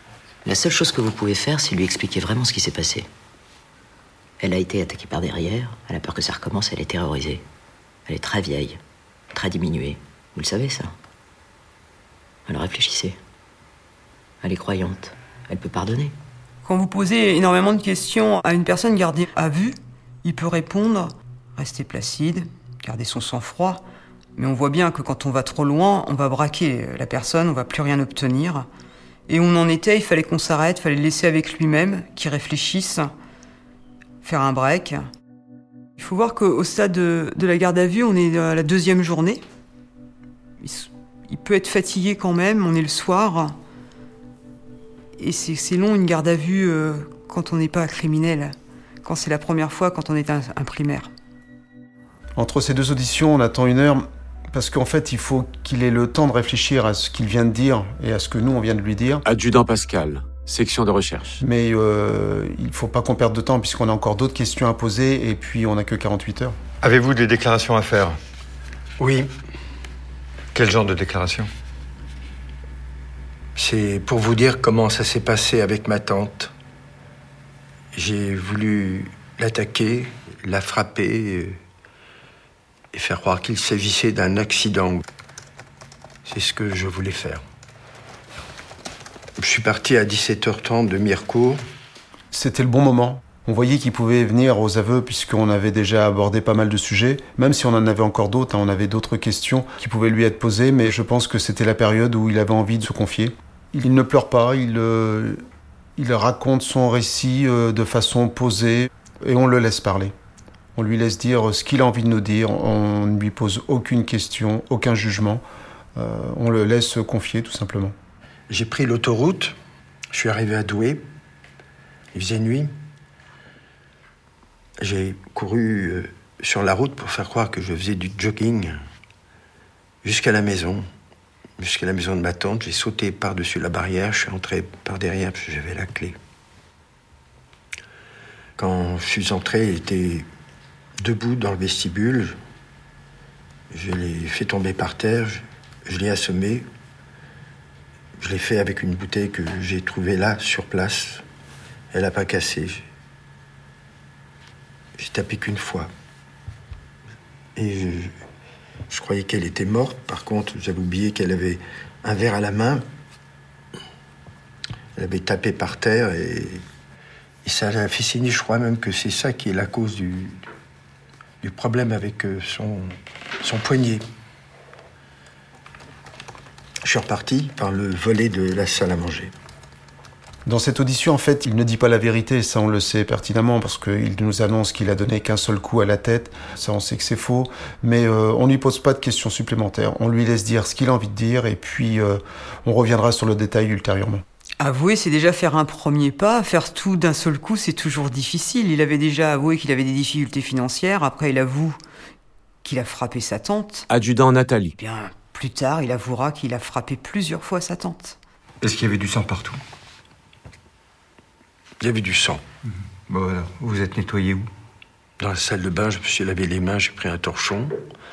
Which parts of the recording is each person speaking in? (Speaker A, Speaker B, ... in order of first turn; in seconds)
Speaker A: 0.4-3.1, 4.4-7.4, 8.1-8.8, 9.3-10.9, 12.5-13.2, 14.4-16.1
Speaker B: 16.6-23.8, 24.4-28.7, 29.3-33.1, 34.2-35.1, 36.0-39.4, 40.6-43.6, 45.2-51.1, 194.6-201.8, 202.6-203.8, 204.8-208.2
Speaker C: 52.4-59.2, 61.4-66.5, 92.3-105.4, 106.0-110.1, 110.8-115.4, 116.0-117.9, 180.4-194.2
Speaker D: 59.2-61.4, 203.9-204.7
Speaker E: 66.8-68.2, 70.5-71.5, 208.6-209.6, 213.1-214.5
Speaker F: 69.0-69.3, 73.5-76.5, 77.9-81.6, 82.9-85.0, 86.2-87.4, 89.4-91.6, 118.5-119.5, 120.1-121.0, 122.1-122.7, 124.8-128.8, 130.0-130.8, 131.6-136.2, 138.6-140.2, 141.0-142.3, 143.7-146.6, 148.2-151.2, 151.9-152.8, 155.0-155.9, 157.6-158.2, 158.9-162.8, 164.9-166.6, 167.4-170.4, 171.4-174.0, 176.8-179.3, 211.8-212.4, 215.2-217.7